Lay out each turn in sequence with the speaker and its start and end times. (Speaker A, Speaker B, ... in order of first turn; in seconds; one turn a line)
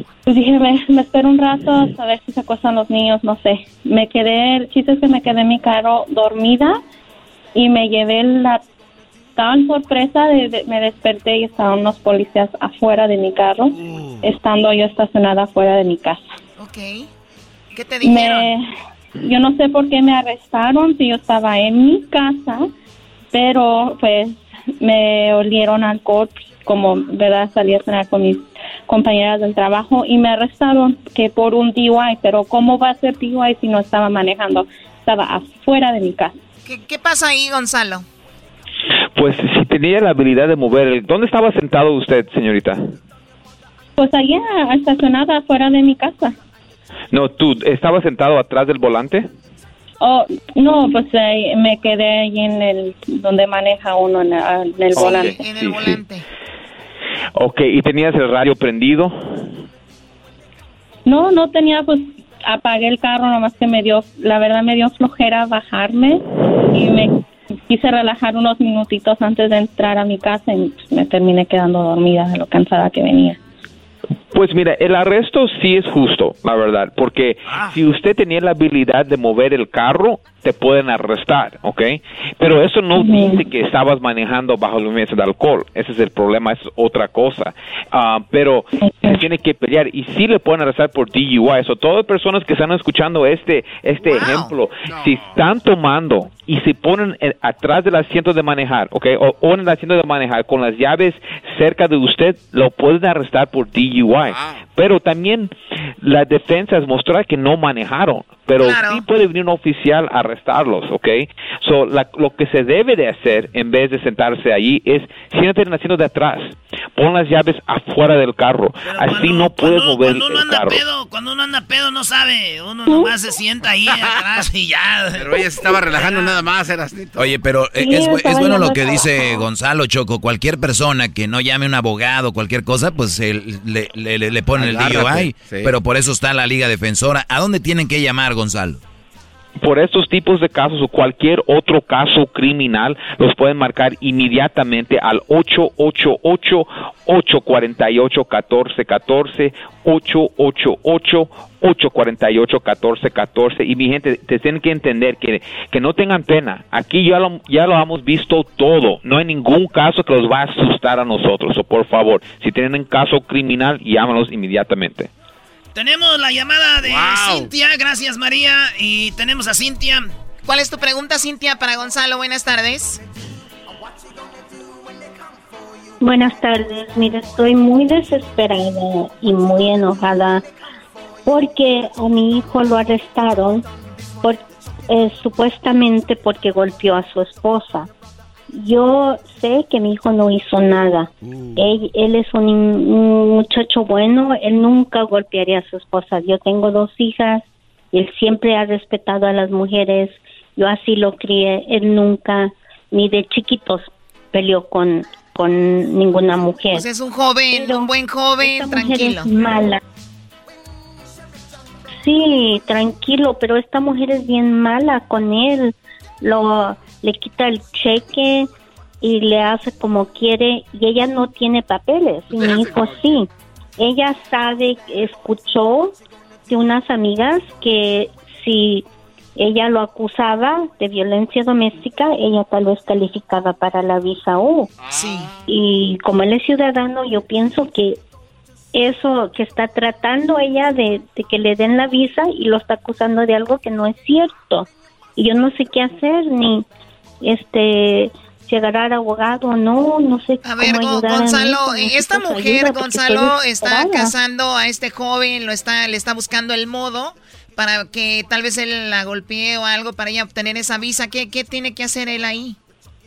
Speaker A: 0.3-6.8
Speaker A: 7.5-8.6
Speaker A: 9.4-16.2
Speaker B: 16.6-17.1
Speaker B: 17.7-18.5
Speaker A: 18.0-18.6
Speaker A: 19.2-22.7
Speaker A: 23.3-36.3
Speaker B: 36.6-38.0
Speaker C: 39.1-42.9
Speaker A: 44.0-46.3
Speaker C: 47.1-49.3
Speaker A: 50.0-55.4
Speaker C: 55.0-56.0
Speaker B: 55.0-56.2
Speaker C: 57.4-59.2
Speaker A: 61.1-73.4
Speaker C: 74.3-120.8
Speaker D: 104.3-104.6
Speaker B: 108.6-109.0
Speaker E: 118.8-126.3
Speaker D: 125.2-127.3
Speaker F: 127.2-138.8
Speaker A: 127.8-128.6
Speaker G: 128.0-128.9
Speaker D: 134.5-135.7
Speaker C: 139.6-165.1
Speaker E: 165.7-170.1
Speaker D: 166.8-167.5
Speaker B: 170.4-173.0
Speaker G: 176.0-180.4
Speaker G: 181.2-183.6
Speaker G: 184.2-187.9
Speaker G: 188.5-206.8
Speaker B: 206.7-209.3
Speaker G: 207.5-207.9
Speaker G: 208.4-209.8
Speaker G: 212.0-218.5
Speaker G: 219.0-225.9
Speaker G: 226.5-228.8
Speaker G: 229.3-234.7
Speaker B: 234.9-235.3
Speaker G: 235.5-238.0
Speaker G: 238.7-246.7
Speaker G: 247.2-254.1
Speaker B: 250.4-262.6